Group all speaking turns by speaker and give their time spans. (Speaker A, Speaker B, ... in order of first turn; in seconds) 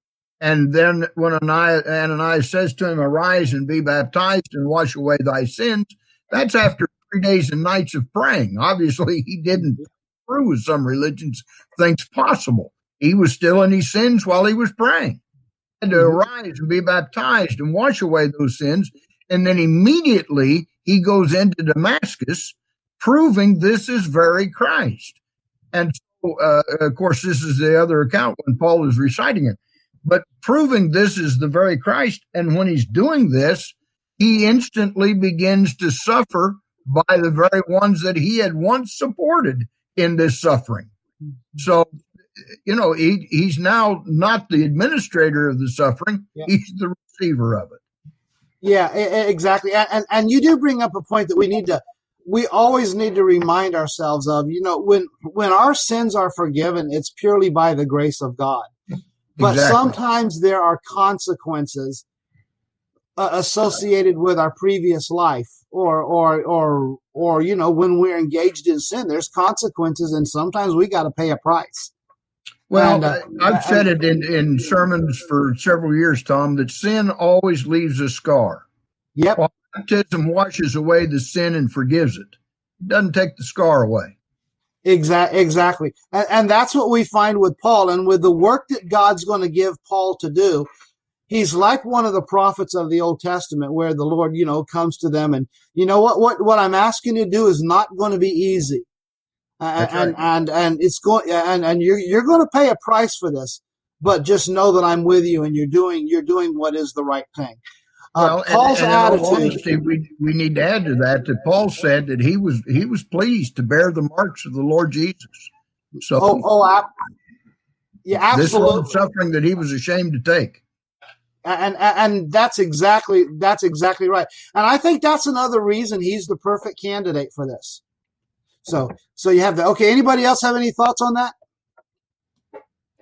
Speaker A: 0.4-15.2, 15.8-25.2, 25.7-40.9, 41.6-42.0, 42.6-47.8, 59.4-60.0, 72.7-78.7, 79.4-84.1, 99.8-100.2, 108.2-115.5, 116.0-116.4, 118.3-120.6
Speaker B: 48.6-58.7, 59.4-62.0, 63.2-71.9, 72.8-73.8, 79.2-79.4, 84.8-90.7, 91.3-98.9, 99.6-107.6, 108.2-109.6, 116.2-116.9, 118.1-119.0, 121.5-127.8, 128.6-131.3